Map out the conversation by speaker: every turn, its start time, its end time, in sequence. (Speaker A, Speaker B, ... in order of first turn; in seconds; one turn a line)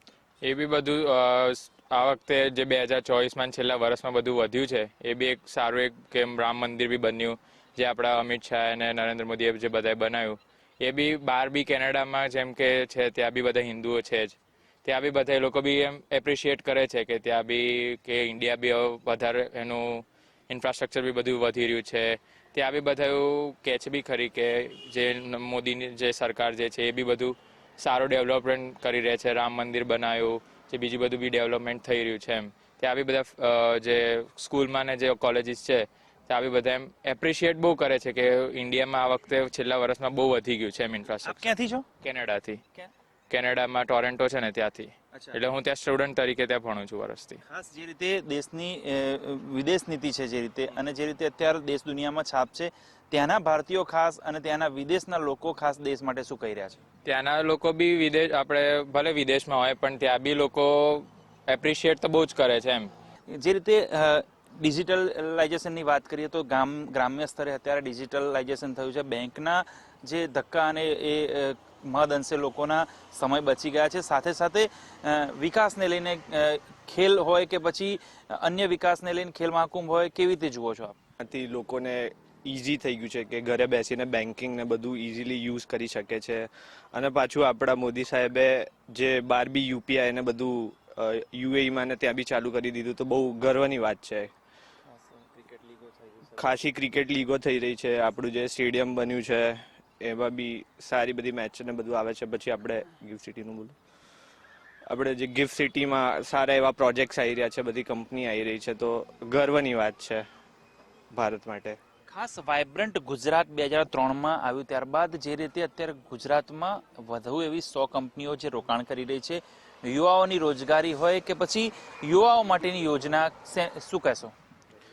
Speaker A: 0.4-41.4
Speaker B: 41.2-41.9
Speaker A: 42.0-42.6
Speaker A: 43.3-47.4
Speaker B: 47.5-56.8
Speaker A: 57.0-62.9
Speaker B: 63.3-81.0
Speaker C: 81.2-94.3
Speaker C: 96.4-103.8
Speaker C: 104.9-110.3
Speaker C: 111.1-111.8
Speaker B: 112.1-124.3